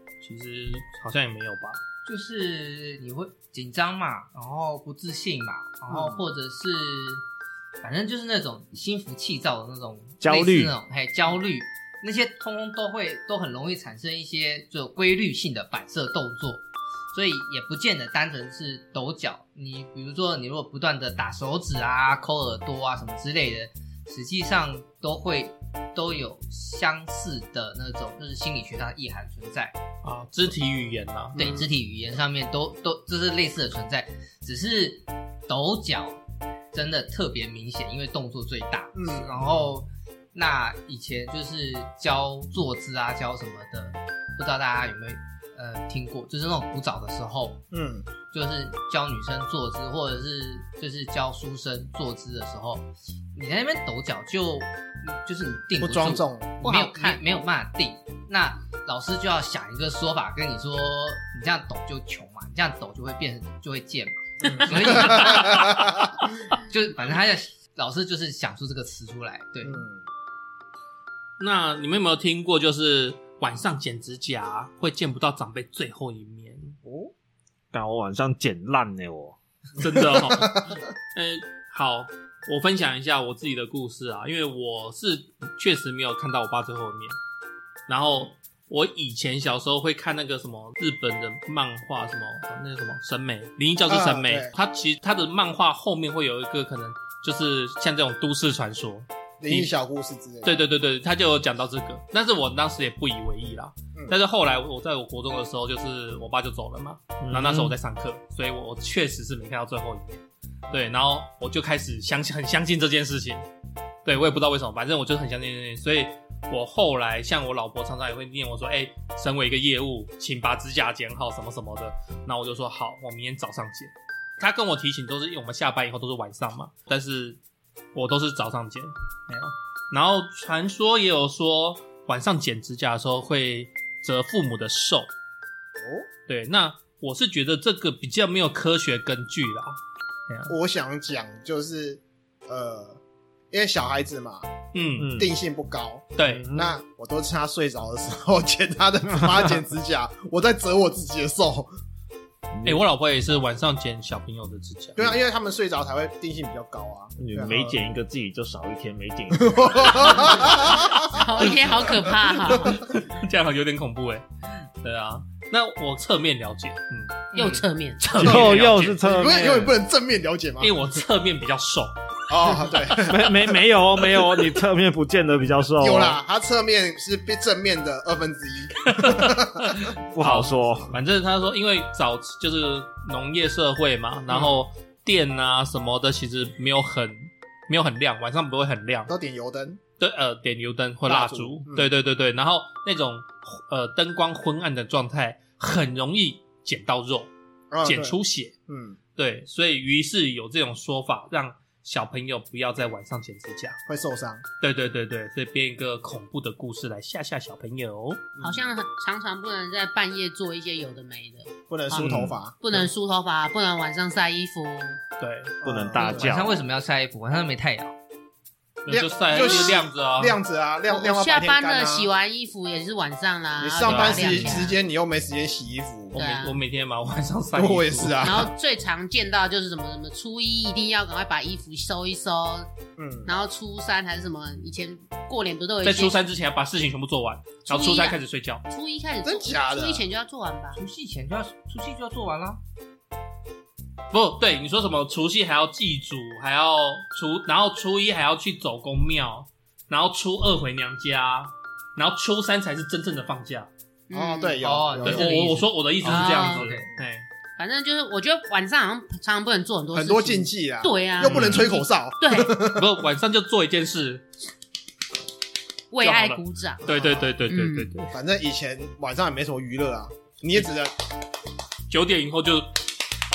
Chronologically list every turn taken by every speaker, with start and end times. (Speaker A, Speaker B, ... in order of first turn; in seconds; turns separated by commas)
Speaker A: 0.2-1.8, Speaker B: 2.0-7.2, Speaker B: 7.8-29.8, Speaker C: 10.2-10.8, Speaker A: 30.0-31.4, Speaker D: 31.4-31.7, Speaker B: 31.4-36.2, Speaker B: 36.7-47.6, Speaker D: 38.9-39.3, Speaker D: 47.7-48.1, Speaker B: 48.3-66.0, Speaker D: 55.8-56.6, Speaker E: 56.6-57.2, Speaker D: 64.4-66.1, Speaker B: 66.5-69.9, Speaker D: 69.6-70.0, Speaker A: 71.4-76.8, Speaker D: 76.8-77.1, Speaker C: 77.7-79.4, Speaker A: 79.8-87.2, Speaker D: 80.3-80.8, Speaker A: 87.9-99.7, Speaker D: 93.9-94.5, Speaker D: 99.4-100.6, Speaker A: 100.5-113.5, Speaker C: 107.2-107.8, Speaker A: 114.0-127.4, Speaker A: 128.0-135.1, Speaker D: 135.8-136.1, Speaker A: 136.3-140.5, Speaker D: 140.5-143.0, Speaker D: 143.5-144.5, Speaker A: 144.7-145.1, Speaker C: 145.0-145.3, Speaker D: 145.1-151.7, Speaker A: 146.2-146.5, Speaker C: 146.3-146.7, Speaker C: 152.6-152.8, Speaker A: 152.6-155.1, Speaker D: 155.0-157.8, Speaker C: 157.2-160.4, Speaker D: 159.3-161.4, Speaker E: 161.0-162.8, Speaker A: 162.5-164.2, Speaker A: 164.8-169.0, Speaker E: 167.3-168.2, Speaker C: 168.1-169.7, Speaker D: 168.2-170.8, Speaker A: 170.6-171.9, Speaker D: 172.3-173.4, Speaker C: 173.0-176.2, Speaker D: 175.8-179.7, Speaker A: 178.9-189.1, Speaker C: 180.1-180.9, Speaker D: 184.3-184.6, Speaker D: 189.1-189.8, Speaker A: 190.0-197.3, Speaker D: 191.1-191.9, Speaker D: 197.7-199.0, Speaker A: 197.8-198.6, Speaker A: 199.2-203.8, Speaker D: 203.9-204.4, Speaker A: 204.6-208.3, Speaker D: 208.4-208.7, Speaker E: 208.4-215.0, Speaker D: 211.7-212.6, Speaker C: 212.0-212.4, Speaker A: 215.2-215.6, Speaker D: 215.6-216.3, Speaker C: 215.6-216.6, Speaker B: 216.0-217.9, Speaker A: 218.8-220.4, Speaker D: 218.9-222.1, Speaker E: 219.3-219.8, Speaker E: 220.9-224.8, Speaker D: 223.6-226.2, Speaker A: 223.8-224.5, Speaker A: 226.1-228.3, Speaker E: 226.2-226.6, Speaker D: 227.5-228.5, Speaker E: 228.2-232.7, Speaker D: 233.0-233.3, Speaker E: 233.3-236.2, Speaker A: 235.8-238.6, Speaker E: 237.7-238.2, Speaker E: 238.7-240.8, Speaker D: 239.2-240.1, Speaker B: 240.8-242.6, Speaker A: 244.1-253.7, Speaker E: 254.1-254.6, Speaker D: 254.1-255.3, Speaker B: 254.6-256.9, Speaker A: 255.0-257.3, Speaker E: 256.1-256.7, Speaker E: 257.6-262.6, Speaker D: 259.9-263.0, Speaker A: 261.2-261.7, Speaker A: 262.5-264.2, Speaker E: 265.9-267.9, Speaker A: 266.0-268.1, Speaker D: 268.1-270.9, Speaker A: 271.9-272.8